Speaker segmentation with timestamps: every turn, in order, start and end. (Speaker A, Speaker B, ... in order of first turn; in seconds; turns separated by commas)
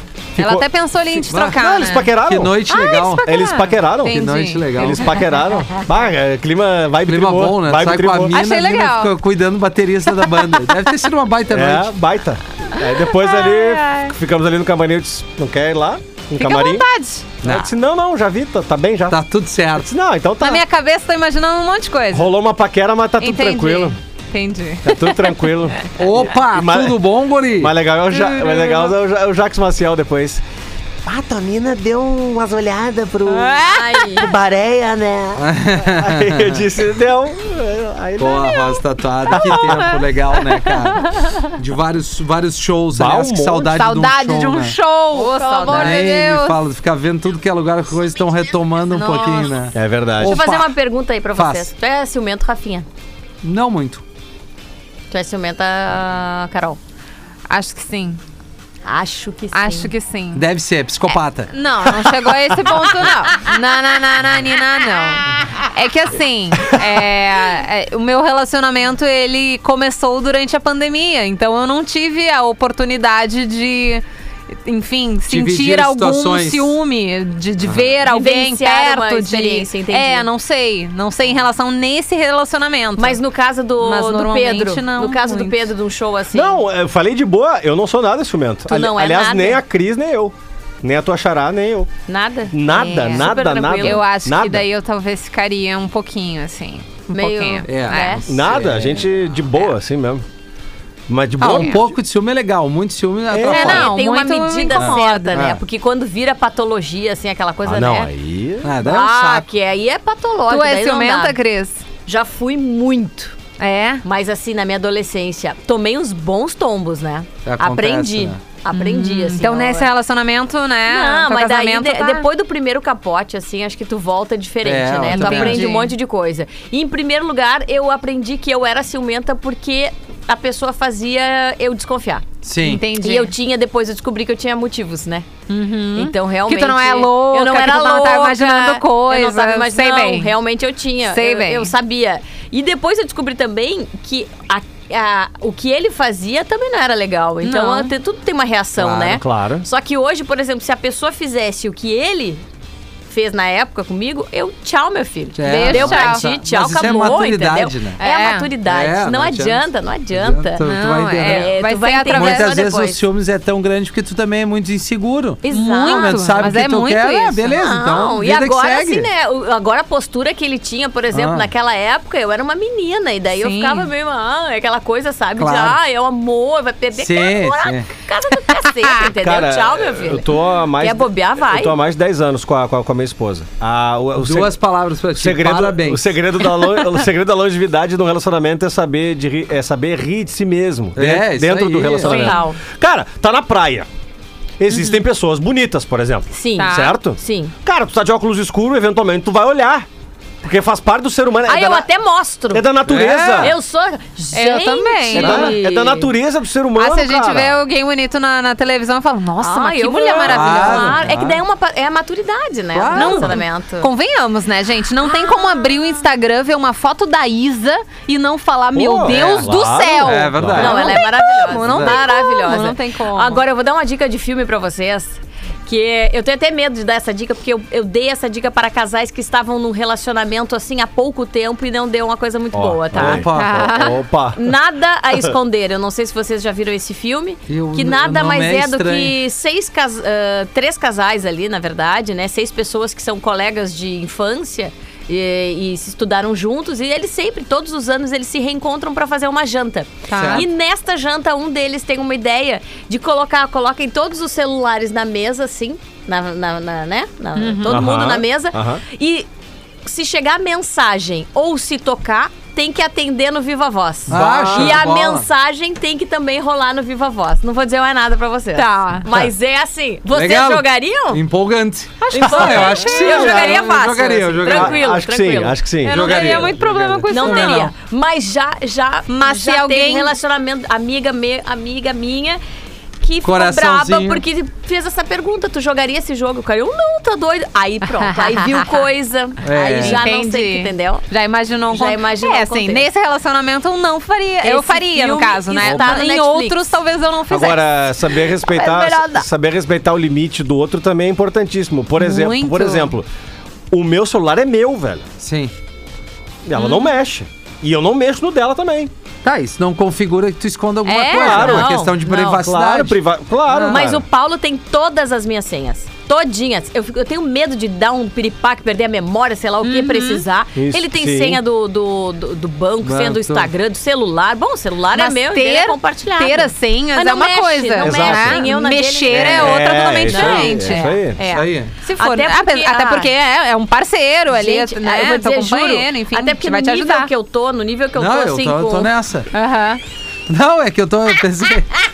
Speaker A: 0.3-0.7, Speaker B: 0.3-2.1, Speaker C: 1.3-1.6, Speaker A: 1.4-2.6, Speaker C: 2.2-3.2, Speaker B: 2.7-5.2, Speaker A: 3.2-8.4, Speaker C: 4.1-5.1, Speaker C: 7.0-11.9, Speaker B: 8.3-9.1, Speaker A: 11.5-16.9, Speaker B: 13.0-14.1, Speaker B: 16.4-17.3, Speaker C: 17.4-17.7, Speaker A: 17.4-19.2, Speaker C: 19.1-19.9, Speaker A: 19.8-20.6, Speaker B: 20.4-22.3, Speaker A: 22.1-24.0, Speaker B: 23.2-25.5, Speaker A: 24.8-30.4, Speaker C: 26.0-27.7, Speaker B: 28.1-28.9, Speaker A: 31.1-33.6, Speaker B: 33.3-34.2, Speaker D: 33.6-34.3, Speaker A: 34.1-38.8, Speaker C: 35.4-36.6, Speaker C: 38.2-44.7, Speaker A: 39.3-39.9, Speaker B: 39.3-41.4, Speaker A: 42.9-43.7, Speaker B: 43.6-46.6, Speaker D: 45.1-46.1, Speaker C: 45.7-50.8, Speaker B: 48.9-49.6, Speaker A: 49.7-50.4, Speaker D: 50.2-52.9, Speaker C: 51.3-51.7, Speaker C: 53.4-54.0, Speaker D: 55.1-56.8, Speaker B: 57.5-58.2, Speaker D: 58.9-59.9, Speaker B: 59.5-60.4, Speaker C: 60.3-61.5, Speaker B: 61.1-74.0, Speaker B: 74.6-83.2, Speaker C: 75.3-76.7, Speaker D: 78.0-80.3, Speaker D: 83.0-86.6, Speaker B: 83.8-85.7, Speaker A: 86.3-91.9, Speaker D: 88.7-89.6, Speaker D: 92.1-94.0, Speaker A: 92.5-94.7, Speaker B: 92.7-98.3, Speaker D: 97.1-98.3, Speaker C: 97.7-99.0, Speaker A: 98.3-100.2, Speaker A: 101.1-101.9, Speaker C: 101.4-103.8, Speaker B: 101.5-101.8, Speaker A: 103.3-103.7, Speaker B: 103.4-105.3, Speaker D: 103.4-108.1, Speaker C: 104.7-105.6, Speaker A: 107.6-108.7, Speaker C: 108.6-109.5, Speaker D: 108.8-111.3, Speaker B: 110.5-111.8, Speaker D: 112.1-113.4, Speaker B: 113.6-114.0, Speaker D: 114.0-119.9, Speaker C: 117.4-118.4, Speaker B: 118.7-122.2, Speaker D: 120.9-132.2, Speaker C: 124.6-125.7, Speaker B: 125.1-125.9, Speaker C: 132.4-132.8, Speaker B: 132.6-133.3, Speaker D: 133.0-135.3, Speaker B: 135.5-140.3, Speaker D: 135.9-152.4, Speaker B: 141.1-141.7, Speaker B: 147.4-147.9, Speaker A: 148.8-149.7, Speaker D: 153.1-160.6, Speaker C: 155.3-158.0, Speaker B: 155.4-156.2, Speaker B: 158.0-158.5, Speaker C: 158.6-161.5, Speaker B: 160.6-162.6, Speaker D: 161.2-163.0, Speaker C: 162.1-169.1, Speaker D: 165.4-166.4, Speaker B: 165.5-167.6, Speaker D: 167.6-180.3, Speaker C: 171.1-171.5, Speaker B: 173.3-173.9, Speaker C: 175.4-175.8, Speaker C: 176.9-177.9, Speaker A: 179.1-184.6, Speaker D: 180.8-181.8, Speaker C: 184.2-186.2, Speaker A: 185.1-193.9, Speaker C: 190.9-192.2, Speaker D: 192.0-192.6, Speaker B: 192.1-192.4, Speaker A: 194.6-199.9, Speaker B: 194.7-195.0, Speaker D: 196.3-197.5, Speaker B: 196.6-196.9, Speaker A: 200.4-201.9, Speaker D: 201.4-202.7, Speaker A: 202.5-203.5, Speaker C: 202.9-203.5, Speaker D: 203.4-206.1, Speaker B: 204.3-205.5, Speaker A: 205.1-207.6, Speaker B: 206.8-211.1, Speaker D: 209.4-213.9, Speaker C: 210.2-211.4, Speaker C: 212.7-213.3, Speaker B: 212.9-223.4, Speaker D: 215.1-215.4, Speaker A: 218.7-220.8, Speaker C: 220.0-221.0, Speaker D: 220.5-233.3, Speaker C: 221.5-222.0, Speaker A: 232.5-234.5, Speaker C: 232.9-233.8, Speaker B: 233.3-234.0, Speaker D: 234.3-259.3, Speaker C: 237.5-239.1, Speaker B: 250.1-250.4, Speaker C: 250.1-250.4, Speaker B: 257.4-257.8, Speaker A: 257.6-258.8, Speaker D: 259.8-271.2, Speaker C: 264.1-265.2, Speaker A: 264.1-264.8, Speaker B: 268.5-269.1, Speaker C: 270.1-274.8, Speaker B: 272.0-274.3, Speaker D: 272.2-275.6, Speaker A: 274.4-276.2, Speaker B: 275.8-277.7, Speaker C: 275.9-277.7, Speaker D: 277.1-282.4, Speaker B: 279.1-280.1, Speaker D: 283.0-291.0, Speaker C: 283.2-284.2, Speaker B: 288.0-288.8, Speaker C: 289.4-290.0, Speaker B: 289.6-299.2, Speaker D: 291.7-292.9, Speaker D: 294.4-296.6, Speaker A: 297.3-303.1, Speaker B: 302.0-302.9, Speaker A: 303.7-305.1, Speaker C: 305.2-305.5, Speaker A: 306.4-308.9, Speaker B: 306.6-306.9, Speaker C: 309.2-313.8, Speaker B: 310.8-311.5, Speaker A: 311.1-314.0, Speaker D: 311.2-312.4, Speaker D: 313.7-330.9, Speaker B: 319.6-320.2, Speaker A: 320.5-321.4, Speaker C: 322.8-323.5, Speaker B: 324.9-337.1, Speaker A: 327.8-328.5, Speaker A: 329.1-331.2, Speaker C: 331.3-331.7, Speaker D: 331.9-333.1, Speaker D: 334.3-338.9, Speaker C: 337.9-339.3, Speaker B: 339.3-339.8, Speaker C: 340.3-341.7